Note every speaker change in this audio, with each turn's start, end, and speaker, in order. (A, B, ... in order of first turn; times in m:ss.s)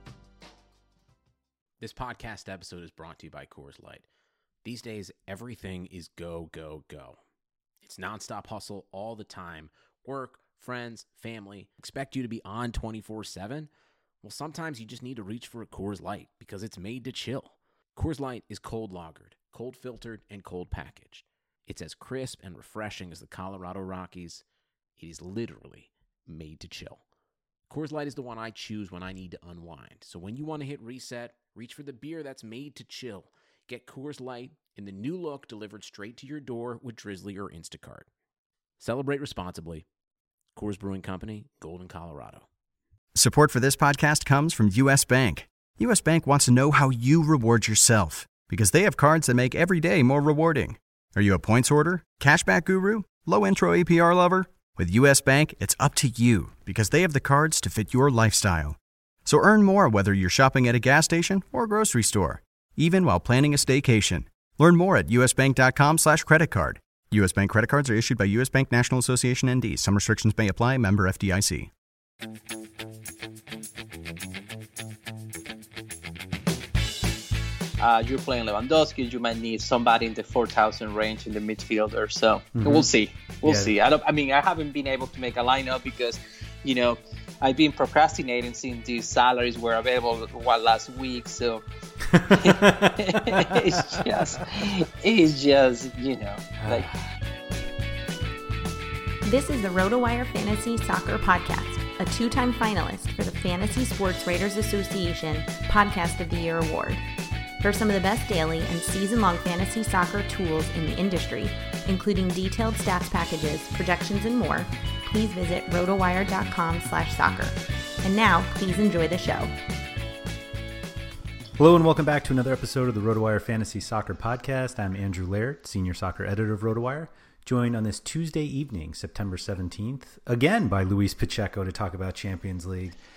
0:01.8-0:04.0 A
0:04.6-0:07.2 A
0:07.8-0:13.7 A
0:14.2-0:24.4 A
0:25.0-0:27.0 A
0:27.7-0:38.1 A
0:38.8-0:39.8 A
0:40.5-0:42.4 A
0:43.1-1:11.7 B
1:17.8-1:31.6 C
1:22.6-1:22.9 D
1:23.4-1:23.7 D
1:32.1-1:34.0 D
1:32.3-1:36.9 C
1:36.6-1:36.8 D
1:39.2-1:47.0 E
1:47.6-1:59.5 E
2:01.6-2:13.0 D